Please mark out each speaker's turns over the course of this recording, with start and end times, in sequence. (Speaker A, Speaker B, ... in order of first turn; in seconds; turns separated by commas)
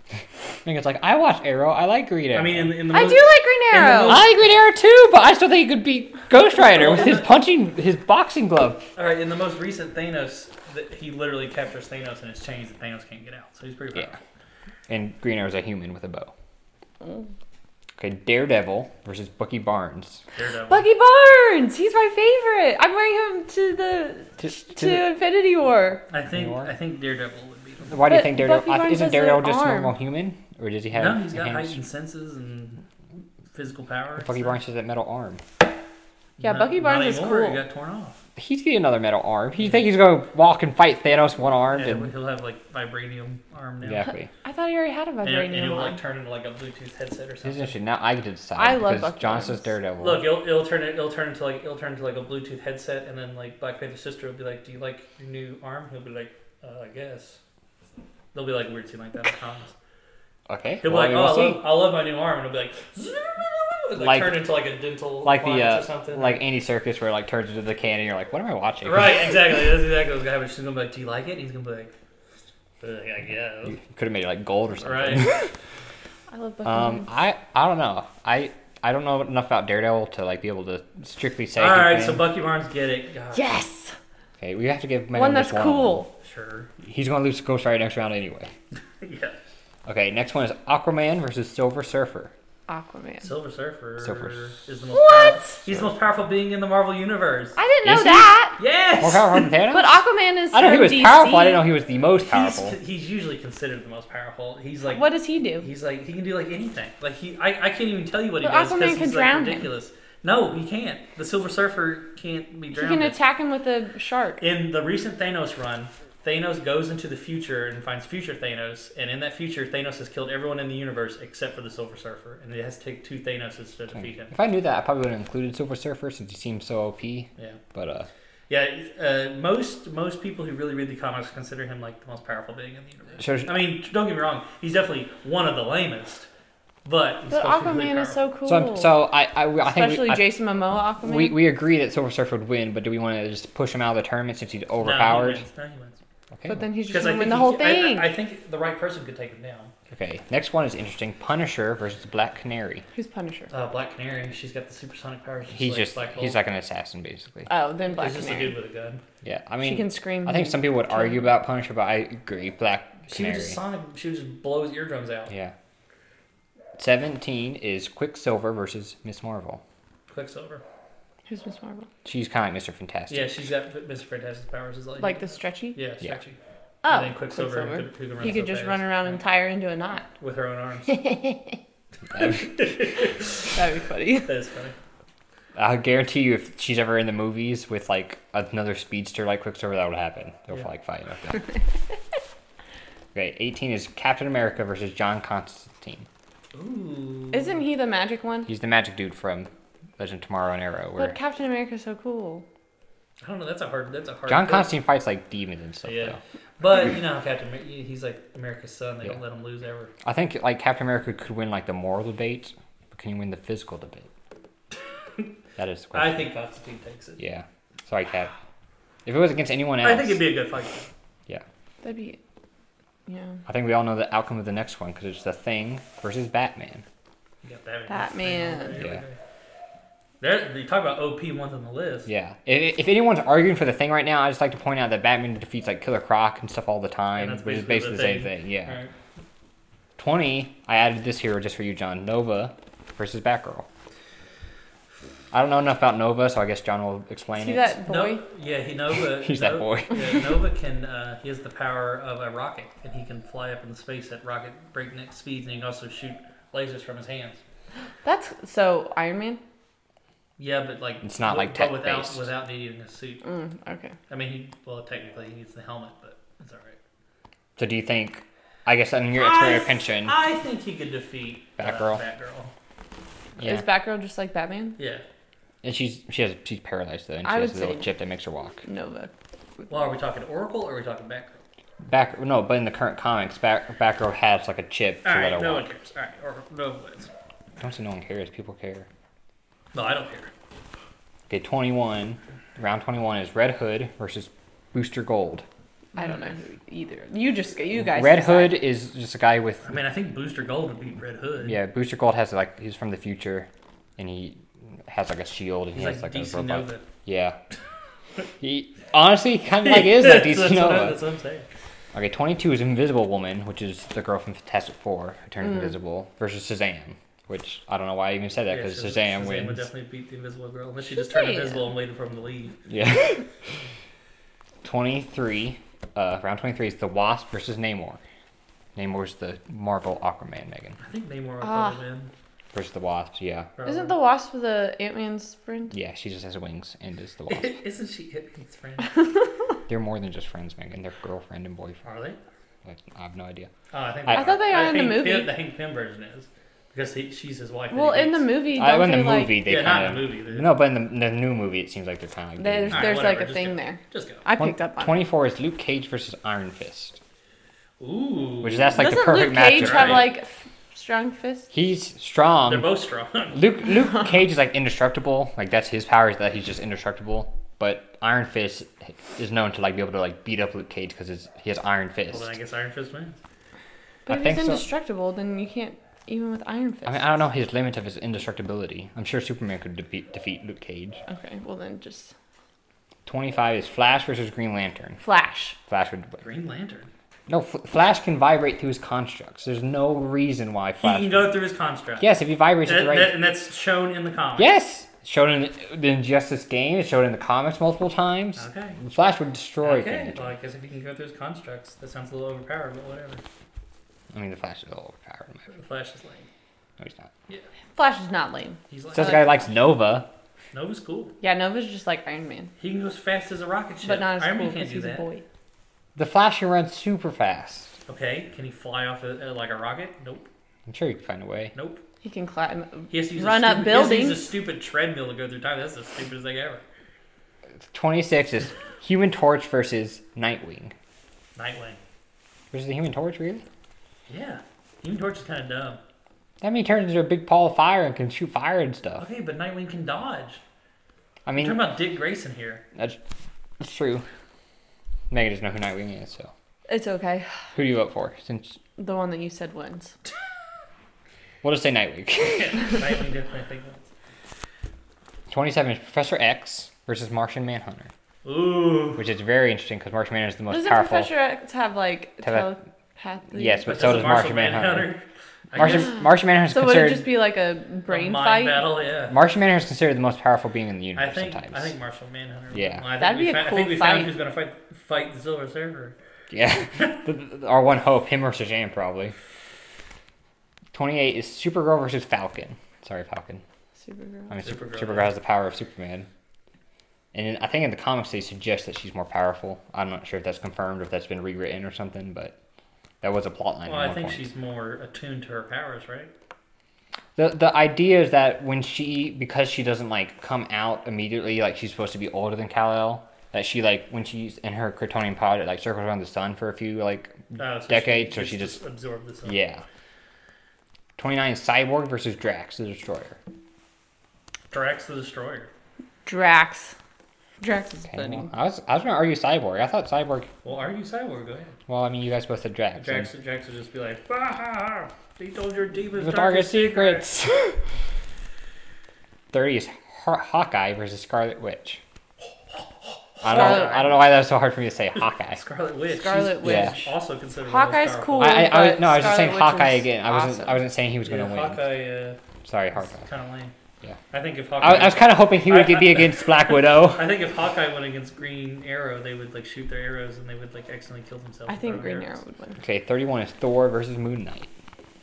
Speaker A: 0.7-2.9, Speaker B: 2.3-4.3, Speaker C: 2.9-4.2, Speaker A: 4.0-8.9, Speaker B: 6.5-7.3, Speaker B: 9.0-14.2, Speaker A: 14.9-16.3, Speaker C: 17.0-17.3, Speaker A: 18.0-20.2, Speaker B: 20.4-20.9, Speaker C: 20.7-26.0, Speaker A: 24.4-25.1, Speaker B: 26.1-28.0, Speaker A: 26.3-26.7, Speaker A: 27.9-31.8, Speaker C: 28.1-29.9, Speaker B: 30.9-32.8, Speaker B: 33.5-34.6, Speaker A: 34.2-35.4, Speaker B: 36.4-38.2, Speaker C: 36.4-37.6, Speaker A: 38.4-42.1, Speaker B: 39.6-39.9, Speaker B: 41.7-44.1, Speaker A: 43.8-44.3, Speaker C: 44.4-46.0, Speaker B: 45.2-47.8, Speaker A: 47.4-50.3, Speaker C: 48.6-49.7, Speaker B: 50.0-57.4, Speaker B: 58.3-59.8, Speaker A: 60.5-61.7, Speaker B: 60.8-66.4, Speaker A: 64.0-64.4, Speaker A: 65.2-69.3, Speaker B: 68.8-71.9, Speaker B: 72.8-73.8, Speaker A: 73.7-75.4, Speaker B: 74.8-75.4, Speaker C: 76.3-77.1, Speaker A: 76.7-82.3, Speaker B: 81.6-83.5, Speaker C: 83.3-84.0, Speaker A: 84.4-86.0, Speaker C: 85.1-86.1, Speaker B: 86.2-86.7, Speaker A: 86.8-88.5, Speaker B: 89.0-89.4, Speaker A: 89.9-92.3, Speaker C: 92.7-93.3, Speaker B: 93.2-97.6, Speaker A: 94.0-94.3, Speaker C: 94.9-95.6, Speaker C: 97.6-98.6, Speaker A: 97.8-98.3, Speaker B: 98.6-99.5, Speaker A: 99.0-100.0, Speaker C: 99.7-101.6, Speaker A: 100.5-102.8, Speaker B: 102.2-113.2, Speaker C: 104.9-105.7, Speaker C: 108.4-109.7, Speaker C: 112.7-114.4, Speaker B: 114.4-124.3, Speaker A: 124.0-128.1, Speaker B: 128.5-136.3, Speaker A: 133.2-133.7, Speaker B: 136.8-138.2, Speaker C: 137.3-139.0, Speaker A: 138.5-140.3, Speaker C: 139.6-141.4, Speaker A: 141.0-145.4, Speaker B: 144.8-146.0, Speaker A: 146.3-146.6, Speaker C: 146.5-148.1, Speaker B: 146.9-149.7, Speaker A: 149.9-152.9, Speaker C: 152.9-153.5, Speaker B: 153.5-156.4, Speaker A: 155.5-157.5, Speaker C: 157.5-158.6, Speaker B: 157.9-159.0, Speaker A: 159.2-163.6, Speaker C: 159.6-161.2, Speaker B: 163.1-165.3, Speaker A: 165.3-165.5, Speaker A: 166.8-169.6, Speaker B: 170.1-170.6, Speaker C: 171.3-171.9, Speaker A: 172.1-173.4, Speaker B: 173.1-179.2, Speaker C: 175.0-175.8, Speaker C: 176.8-180.1, Speaker B: 180.2-181.1, Speaker C: 180.9-181.6, Speaker B: 182.2-183.4, Speaker C: 183.5-184.3, Speaker B: 184.2-184.8, Speaker A: 185.6-191.5, Speaker A: 193.1-196.1, Speaker B: 196.5-197.6, Speaker C: 197.3-198.5, Speaker A: 198.5-201.2, Speaker C: 201.0-202.5, Speaker B: 203.2-204.7, Speaker A: 204.3-206.2, Speaker B: 205.8-209.9, Speaker A: 210.0-214.1, Speaker A: 215.6-216.3, Speaker B: 215.9-217.2, Speaker A: 217.2-218.3, Speaker A: 219.1-220.2, Speaker B: 219.8-220.9, Speaker C: 221.8-222.2, Speaker C: 223.1-223.4, Speaker A: 223.5-226.8, Speaker B: 227.4-229.2, Speaker C: 227.9-228.8, Speaker B: 230.2-232.1, Speaker A: 232.1-238.8, Speaker B: 237.2-238.9, Speaker A: 240.0-243.7, Speaker A: 245.3-247.8, Speaker C: 247.4-248.2, Speaker B: 247.8-257.4, Speaker A: 249.1-250.2, Speaker C: 258.0-259.4, Speaker B: 260.4-263.2, Speaker A: 261.0-262.3, Speaker C: 263.2-263.9, Speaker B: 264.1-266.8, Speaker A: 267.6-270.2, Speaker B: 269.1-272.5, Speaker A: 271.6-272.0, Speaker A: 273.4-273.7, Speaker C: 273.4-274.8, Speaker B: 274.8-275.0, Speaker A: 275.6-278.6, Speaker C: 277.2-277.9, Speaker C: 278.6-279.1, Speaker B: 279.7-281.4, Speaker A: 281.8-285.7, Speaker B: 285.0-287.1, Speaker A: 287.6-288.9, Speaker B: 289.7-290.3, Speaker A: 291.3-295.5, Speaker C: 295.9-298.6, Speaker A: 297.7-299.7, Speaker B: 299.6-301.6, Speaker A: 301.4-307.4, Speaker B: 305.8-306.8, Speaker A: 308.4-311.0, Speaker B: 309.6-311.5, Speaker A: 311.9-319.7, Speaker C: 315.4-315.7, Speaker B: 318.5-322.6, Speaker C: 320.9-321.7, Speaker A: 322.7-323.3, Speaker A: 324.6-328.0, Speaker A: 328.8-330.8, Speaker B: 330.8-332.1, Speaker C: 331.4-331.8, Speaker A: 332.5-333.5, Speaker B: 333.6-334.0, Speaker C: 333.6-335.7, Speaker A: 335.7-337.6, Speaker B: 337.3-339.1, Speaker A: 339.7-341.8, Speaker B: 341.8-342.2, Speaker A: 342.6-343.5, Speaker B: 343.7-348.3, Speaker C: 344.1-345.3, Speaker C: 347.7-349.5, Speaker A: 348.5-353.0, Speaker B: 349.4-350.5, Speaker C: 352.4-355.0, Speaker B: 352.7-354.2, Speaker A: 354.4-357.0, Speaker B: 357.8-358.8, Speaker A: 358.4-360.2, Speaker C: 358.8-361.5, Speaker B: 359.5-360.2, Speaker A: 361.5-362.7, Speaker B: 362.4-363.4, Speaker A: 363.3-372.4, Speaker B: 372.1-373.2, Speaker C: 374.1-377.1, Speaker A: 374.1-374.7, Speaker A: 376.9-381.0, Speaker C: 381.1-382.1, Speaker A: 383.1-385.0, Speaker C: 385.0-385.6, Speaker A: 385.7-386.2, Speaker B: 386.2-386.9, Speaker A: 387.3-391.3, Speaker B: 390.8-392.1, Speaker A: 392.0-393.1, Speaker B: 392.6-394.5, Speaker A: 394.4-400.3, Speaker B: 398.4-398.8, Speaker B: 399.6-403.2, Speaker A: 404.1-405.4, Speaker B: 405.5-406.3, Speaker A: 406.8-407.1, Speaker C: 407.8-409.4, Speaker B: 408.7-409.4, Speaker A: 408.9-410.1, Speaker B: 410.5-411.1, Speaker C: 411.2-412.5, Speaker B: 412.6-415.1, Speaker C: 413.8-415.2, Speaker A: 416.0-417.8, Speaker B: 417.9-420.3, Speaker A: 420.7-421.5, Speaker B: 421.6-421.8, Speaker C: 422.0-424.3, Speaker B: 422.9-426.6, Speaker A: 427.7-430.7, Speaker B: 431.4-431.8, Speaker A: 432.5-433.4, Speaker B: 434.1-435.8, Speaker A: 436.4-439.1, Speaker B: 439.0-440.4, Speaker A: 441.3-441.6, Speaker B: 441.4-442.6, Speaker A: 442.8-443.0, Speaker A: 443.6-444.1, Speaker A: 445.1-446.3, Speaker C: 446.7-447.3, Speaker A: 447.6-448.6, Speaker C: 448.8-449.9, Speaker A: 451.4-452.8, Speaker B: 452.3-453.9, Speaker A: 455.3-457.9, Speaker B: 458.2-459.0, Speaker A: 458.9-461.1, Speaker C: 460.5-463.9, Speaker A: 462.2-462.5, Speaker A: 463.3-464.9, Speaker B: 463.7-465.9, Speaker A: 465.6-467.1, Speaker C: 465.6-465.9, Speaker C: 466.5-468.8, Speaker B: 467.9-469.2, Speaker A: 469.1-471.7, Speaker B: 471.0-476.0, Speaker A: 472.5-472.9, Speaker C: 473.0-474.1, Speaker A: 476.3-479.1, Speaker A: 480.7-483.4, Speaker C: 483.8-484.3, Speaker A: 484.3-486.1, Speaker B: 484.4-485.1, Speaker A: 487.1-492.4, Speaker A: 493.0-494.3, Speaker B: 493.6-496.1, Speaker A: 497.2-508.6, Speaker B: 507.4-509.4, Speaker A: 509.2-509.6, Speaker A: 511.0-513.2, Speaker B: 514.5-515.5, Speaker C: 516.1-516.8, Speaker C: 517.4-518.3, Speaker A: 517.9-520.3, Speaker B: 520.4-521.6, Speaker A: 521.7-523.1, Speaker B: 522.8-527.1, Speaker A: 526.0-527.6, Speaker A: 529.3-531.8, Speaker B: 532.5-534.0, Speaker A: 533.2-535.4, Speaker C: 533.3-533.9, Speaker B: 535.3-538.5, Speaker C: 535.9-536.9, Speaker A: 536.4-536.8, Speaker C: 537.4-540.6, Speaker A: 538.2-541.6, Speaker B: 541.0-542.2, Speaker A: 542.5-543.0, Speaker B: 542.8-543.5, Speaker B: 544.1-552.2, Speaker A: 544.6-547.1, Speaker C: 551.5-552.6, Speaker A: 552.6-554.5